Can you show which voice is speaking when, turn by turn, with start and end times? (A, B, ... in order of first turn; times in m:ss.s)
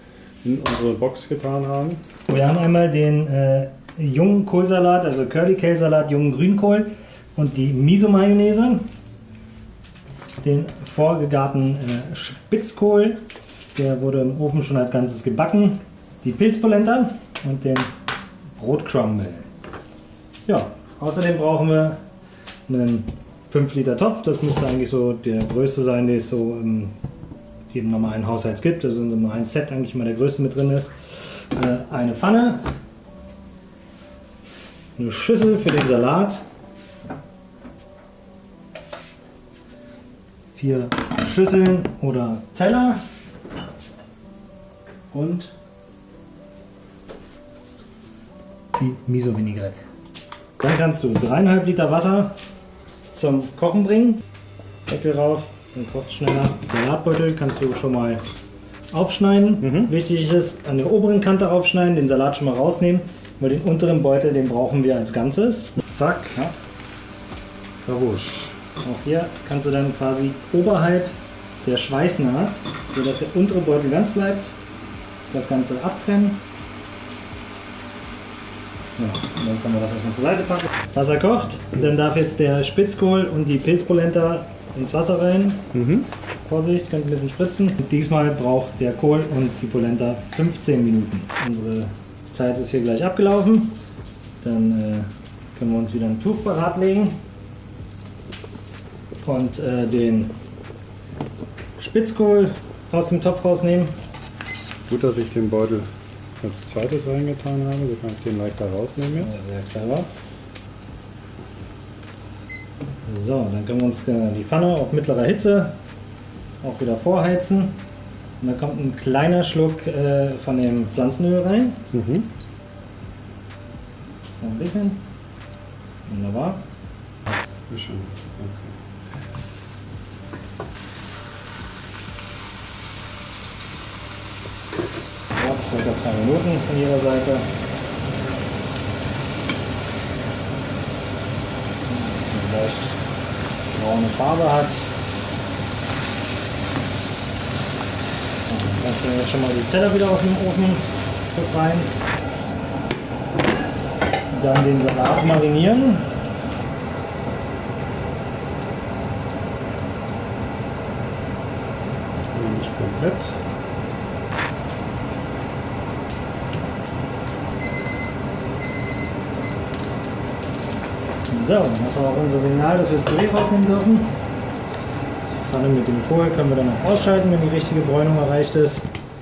0:00.4-0:02.0 A
0:02.3-0:08.8 B
0:10.4-0:13.2 B
0:13.7-0:17.9 B
0:18.6-0:19.5 B
0:20.4-0:22.0 B
0:22.7-0:26.9 B
0:27.7-0:32.7 B
0:35.0-0:36.4 B
0:40.5-0:43.0 B
0:45.1-0:45.5 B
0:48.8-0:49.8 B
0:50.6-0:52.4 B
0:53.1-0:54.2 B
0:54.9-0:58.2 B
0:58.9-1:06.5 B
0:59.6-0:59.9 A
1:07.8-1:08.6 A
1:08.8-1:11.1 B
1:11.6-1:14.6 B
1:15.3-1:16.4 B
1:19.0-1:25.6 B
1:25.7-1:26.1 A
1:26.4-1:33.8 B
1:34.4-1:37.2 B
1:39.2-1:40.3 B
1:41.8-1:43.9 B
1:44.9-1:45.9 A
1:46.4-1:49.4 A
1:49.1-1:50.1 B
1:53.0-1:55.8 B
1:56.6-1:57.7 B
1:58.4-2:01.8 B
2:01.9-2:02.3 A
2:04.4-2:05.0 B
2:06.1-2:06.6 B
2:07.7-2:08.7 A
2:15.3-2:17.5 B
2:21.8-2:23.0 B
2:23.7-2:24.9 B
2:28.4-2:31.9 B
2:34.3-2:36.1 B
2:42.3-2:43.4 A
2:51.3-2:54.1 B
2:55.3-2:58.9 B